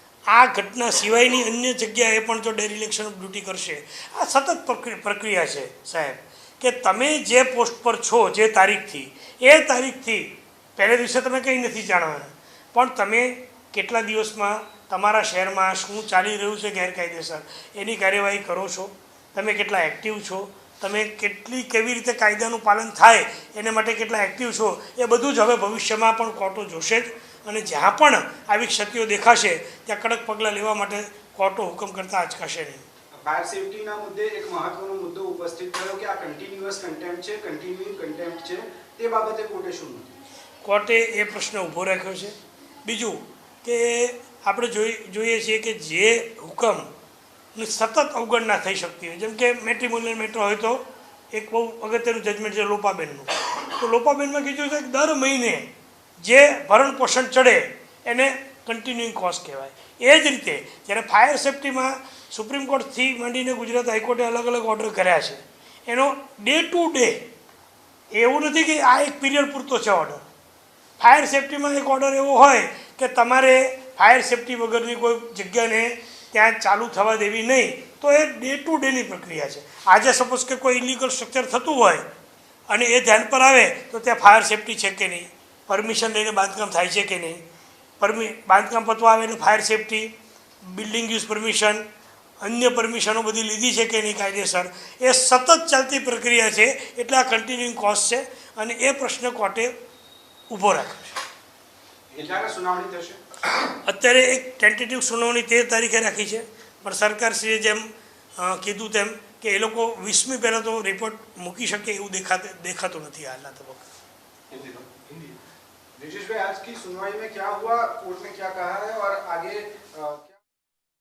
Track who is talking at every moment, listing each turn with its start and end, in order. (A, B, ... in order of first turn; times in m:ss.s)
0:00.3-0:32.8 A
0:33.1-0:40.1 B
0:40.6-0:46.9 A
0:47.5-1:07.2 A
1:08.1-1:10.2 A
1:11.0-1:22.0 A
1:22.7-1:27.4 A
1:28.0-1:31.8 A
1:32.4-1:39.7 A
1:40.5-1:41.2 A
1:42.1-1:43.2 B
1:43.8-1:53.8 A
1:54.5-1:55.2 B
1:56.0-2:00.4 B